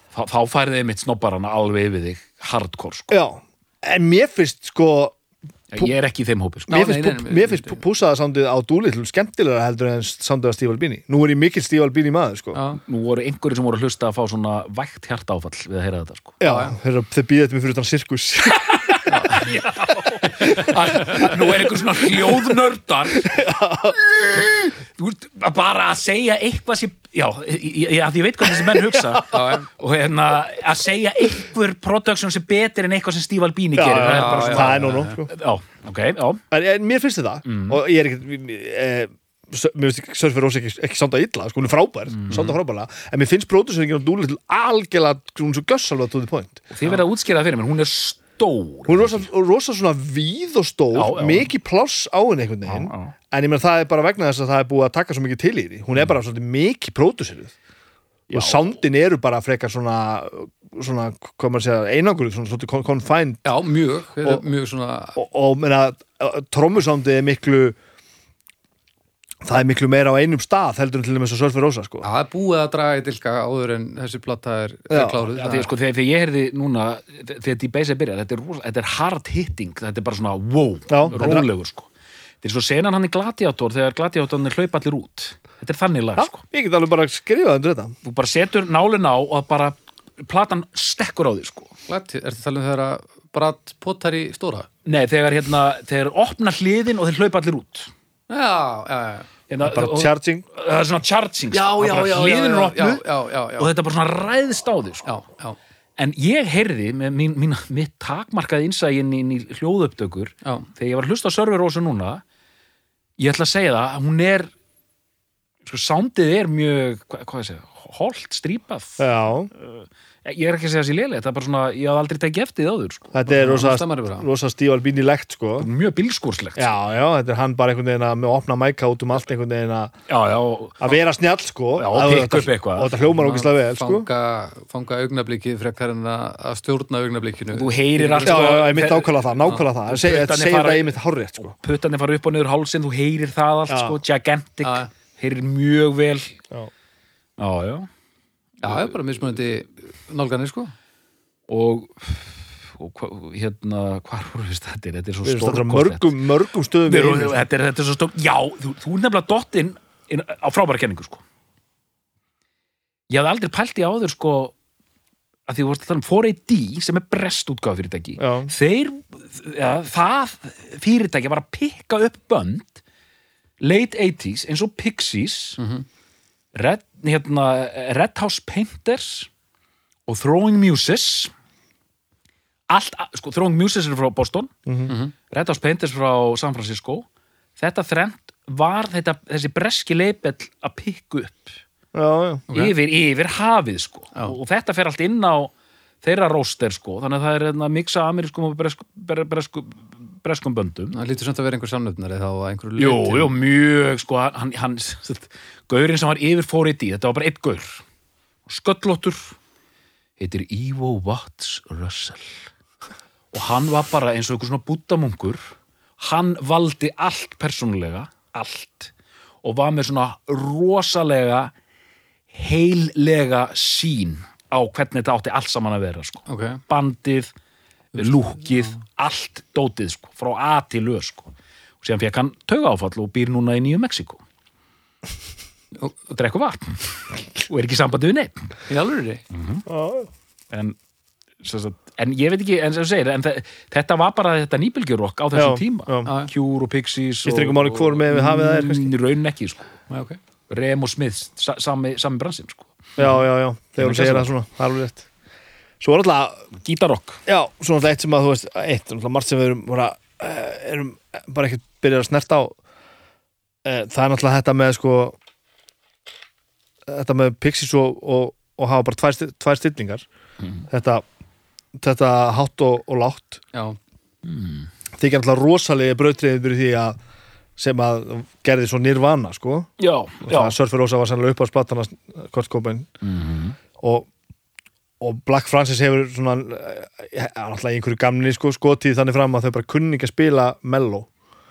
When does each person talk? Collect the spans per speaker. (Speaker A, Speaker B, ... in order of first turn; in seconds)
Speaker A: 0.1-3.2, 5.7-6.7, 12.8-16.4, 18.8-23.4, 24.2-36.4, 37.5-37.8, 42.1-42.6, 46.7-49.3, 50.9-51.5, 52.7-53.1, 58.3-58.7, 75.4-81.9, 82.4-86.4, 88.0-91.7, 94.9-97.9, 99.5-103.0, 103.6-105.1, 106.0-112.2, 113.2-114.5, 115.7-123.1, 125.6-126.7, 130.1-131.0, 131.8-133.0, 137.5-139.1, 139.9-146.3, 147.4-147.9, 151.5-156.1, 156.9-161.2, 163.1-164.5, 165.5-172.8, 173.6-175.6, 176.5-179.3, 180.1-181.3, 182.7-184.5, 185.3-191.6, 192.5-201.0, 202.8-207.8, 208.5-209.3, 210.2-212.5, 213.3-218.9, 219.4-221.5, 222.3-227.3, 227.9-234.2, 236.1-238.5, 239.3-239.7, 240.5-240.8, 241.4-249.7, 250.5-253.1, 253.8-254.3, 256.6-257.2, 274.2-274.7, 279.8-280.6, 283.0-283.6
Speaker B: 3.1-5.2, 6.7-12.6, 16.4-19.2, 20.7-21.3, 23.2-24.0, 28.9-29.2, 33.8-35.3, 36.5-46.6, 48.9-57.5, 58.3-63.5, 65.2-67.8, 69.4-72.1, 74.9-75.2, 80.9-81.5, 86.2-88.0, 99.6-100.5, 119.0-119.5, 123.1-125.7, 126.6-129.9, 130.8-134.1, 138.2-141.6, 143.7-144.0, 155.2-157.4, 168.2-168.5, 184.7-184.9, 191.9-192.4, 239.7-240.1, 245.3-246.1, 247.2-248.9, 253.0-255.1, 255.8-256.4, 257.3-262.6, 263.6-265.2, 266.9-270.1, 270.7-271.1, 271.8-273.4, 275.0-277.0, 277.6-279.7, 280.2-282.9, 283.8-284.1, 285.0-291.1
Speaker C: 6.7-7.8, 12.5-12.8, 16.4-16.8, 19.1-19.4, 29.3-29.7, 34.0-35.2, 63.5-65.2, 72.0-75.7, 91.9-94.7, 98.3-99.3, 101.5-103.7, 105.0-105.6, 123.3-124.3, 133.1-138.7, 148.6-150.7, 175.6-175.8, 192.5-192.8, 200.9-203.3, 226.3-226.6, 238.7-239.2, 246.1-246.3, 249.9-250.2